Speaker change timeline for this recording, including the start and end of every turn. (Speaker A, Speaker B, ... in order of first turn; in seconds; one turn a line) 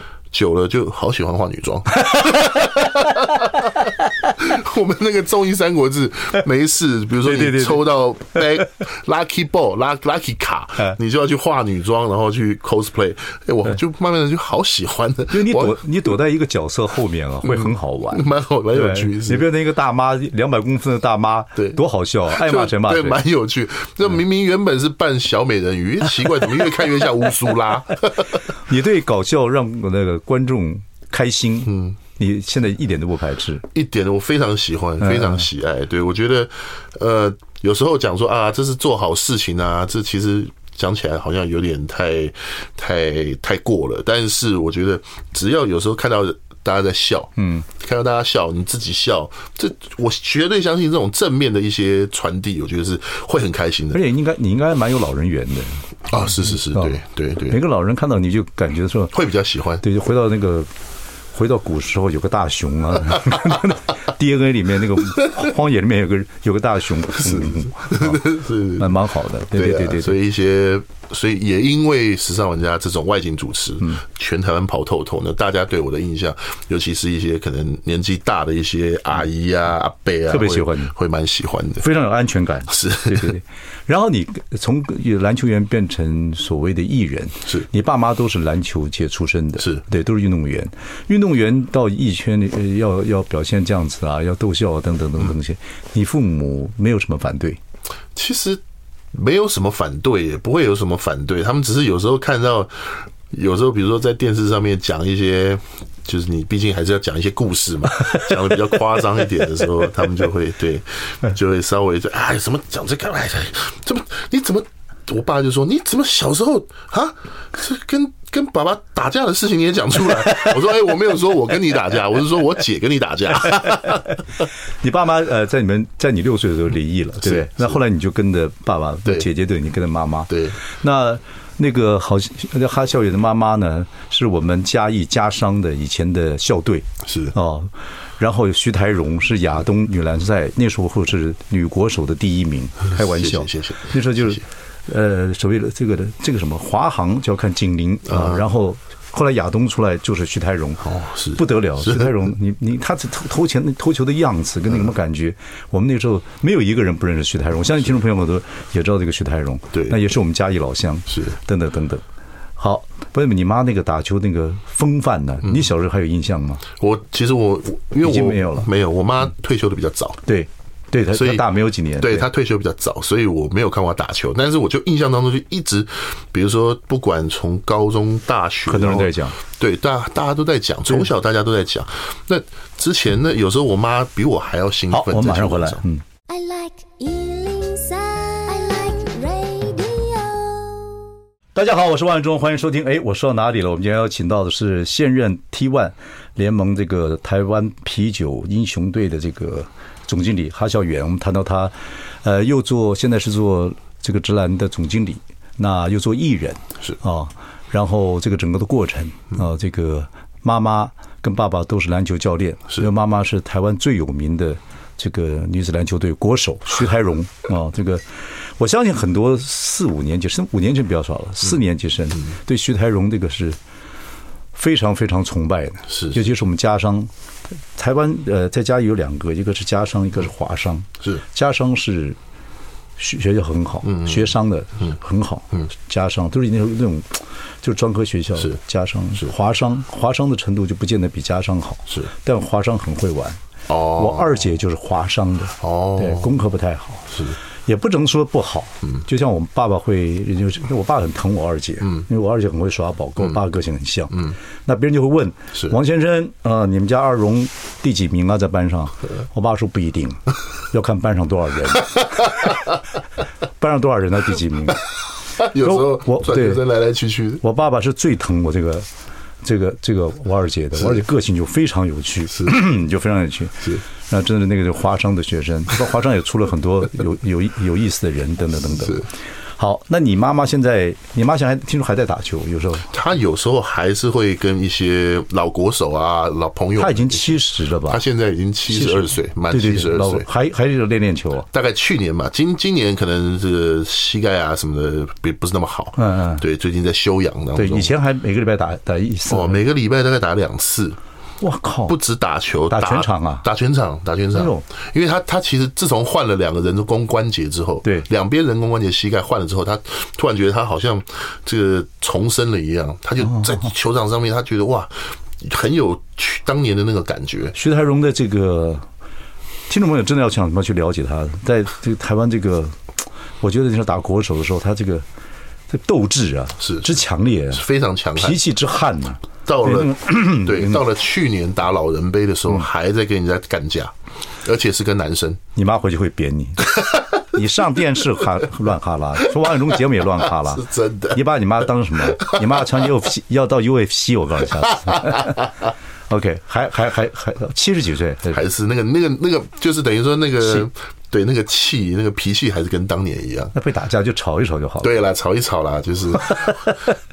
Speaker A: 0.3-15.8
Speaker B: 2.1-2.6
Speaker B: 7.2-7.8
Speaker B: 15.3-23.2
Speaker A: 17.5-19.5
Speaker A: 22.3-28.4
Speaker B: 28.7-33.7
Speaker A: 31.7-31.9
Speaker A: 33.7-54.0
Speaker B: 35.0-35.4
Speaker B: 47.4-47.6
Speaker B: 53.9-55.8
Speaker A: 56.1-57.6
Speaker B: 56.7-59.1
Speaker A: 59.1-59.8
Speaker B: 59.8-60.7
Speaker B: 61.3-70.2
Speaker A: 67.2-68.9
Speaker A: 69.5-81.9
Speaker B: 80.3-80.9
Speaker B: 81.8-97.6
Speaker A: 82.7-83.3
Speaker A: 98.2-98.6
Speaker A: 99.1-124.1
Speaker B: 123.5-124.2
Speaker B: 124.8-162.0
Speaker A: 127.2-127.8
Speaker A: 130.3-130.6
Speaker A: 137.1-137.3
Speaker A: 142.9-144.4
Speaker A: 148.1-148.4
Speaker A: 150.8-152.1
Speaker B: 162.6-166.6
Speaker A: 166.8-170.2
Speaker B: 168.0-168.7
Speaker B: 170.3-172.3
Speaker A: 171.1-185.8
Speaker B: 178.7-179.4
Speaker B: 184.9-186.0
Speaker C: 186.3-191.0
Speaker B: 191.6-223.6
Speaker B: 224.6-227.1
Speaker A: 225.9-226.2
Speaker B: 227.7-232.2
Speaker B: 233.0-243.4
Speaker A: 233.8-234.3
Speaker A: 243.7-244.3
Speaker B: 243.9-262.6
Speaker A: 245.6-246.3
Speaker B: 263.6-264.8
Speaker A: 265.4-267.4
Speaker B: 265.6-266.6
Speaker B: 267.4-268.9
Speaker B: 269.4-282.9
Speaker A: 270.8-271.0
Speaker A: 278.8-279.1
Speaker A: 282.9-290.3
Speaker B: 286.8-288.0
Speaker B: 288.7-291.5
Speaker A: 291.5-297.9
Speaker B: 296.0-296.4
Speaker B: 297.6-299.6
Speaker A: 299.3-301.0
Speaker B: 301.4-302.0
Speaker A: 301.9-317.6
Speaker B: 302.7-303.5
Speaker B: 304.4-304.6
Speaker B: 313.3-313.6
Speaker B: 317.5-318.9
Speaker B: 319.7-322.8
Speaker B: 323.4-325.1
Speaker B: 325.7-330.8
Speaker A: 326.6-327.0
Speaker A: 327.5-328.4
Speaker A: 329.5-335.4
Speaker B: 335.6-345.5
Speaker A: 340.2-341.2
Speaker A: 342.1-342.6
Speaker A: 344.9-345.5
Speaker B: 346.1-348.4
Speaker A: 348.3-353.5
Speaker B: 353.5-354.9
Speaker A: 354.8-356.8
Speaker B: 356.3-356.7